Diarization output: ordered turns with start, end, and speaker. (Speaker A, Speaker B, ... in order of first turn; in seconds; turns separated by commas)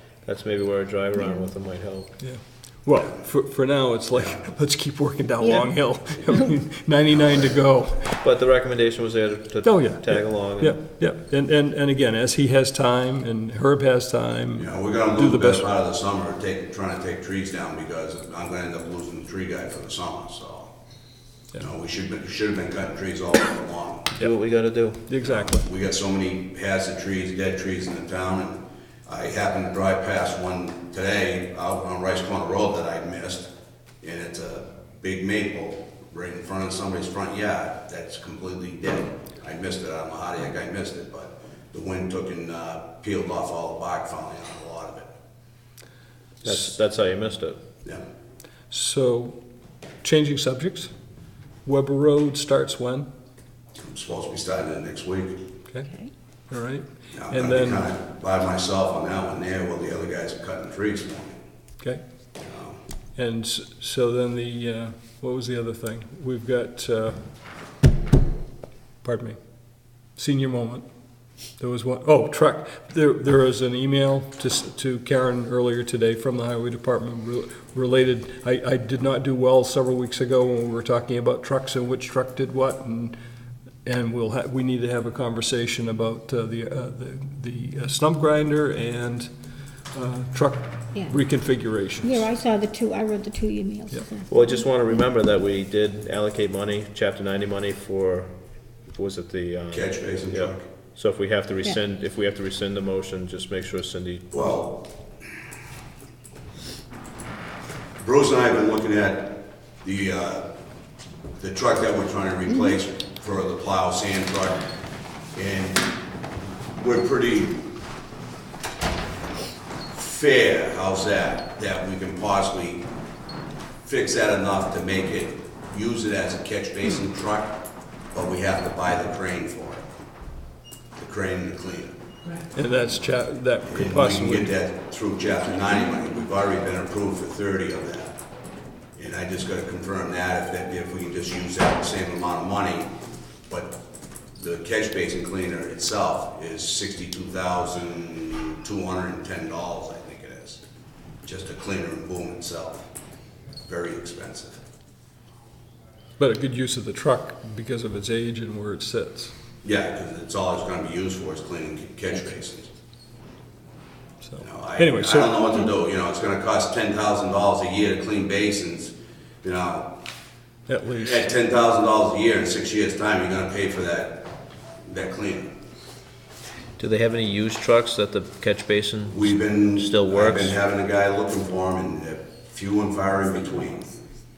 Speaker A: 0.2-2.1, Speaker B: 2.2-8.2, Speaker C: 2.9-3.2, Speaker A: 8.2-10.8, Speaker B: 9.6-15.7, Speaker C: 14.6-20.7, Speaker C: 21.6-24.2, Speaker A: 24.2-25.0, Speaker B: 25.1-25.7, Speaker C: 25.2-33.5, Speaker C: 34.0-45.1, Speaker A: 46.4-47.6, Speaker B: 48.7-49.4, Speaker B: 50.0-50.9, Speaker B: 51.6-53.1, Speaker C: 53.8-55.4, Speaker B: 56.5-57.9, Speaker C: 57.1-61.4, Speaker C: 62.4-62.8, Speaker B: 63.2-67.2, Speaker B: 69.0-69.4, Speaker B: 70.2-70.8, Speaker B: 71.6-83.2, Speaker B: 83.8-89.3, Speaker B: 89.9-92.3, Speaker D: 90.9-91.2, Speaker D: 92.0-94.4, Speaker A: 94.3-98.3, Speaker A: 98.9-104.3, Speaker C: 99.7-100.7, Speaker C: 104.3-104.9, Speaker C: 108.0-110.5, Speaker C: 111.4-114.6, Speaker C: 115.3-115.9, Speaker C: 116.8-117.7, Speaker C: 119.9-122.9, Speaker C: 123.8-129.8, Speaker C: 130.9-132.0, Speaker B: 132.5-134.6, Speaker C: 133.7-138.2, Speaker C: 138.9-142.9, Speaker C: 143.5-143.8, Speaker C: 144.4-150.6, Speaker C: 151.2-152.9, Speaker C: 153.7-154.6, Speaker B: 156.2-159.3, Speaker C: 159.6-162.7, Speaker B: 164.2-165.5, Speaker C: 164.4-170.0, Speaker B: 170.7-171.3, Speaker C: 170.8-174.3, Speaker C: 174.8-175.6, Speaker A: 176.8-180.5, Speaker C: 179.1-183.9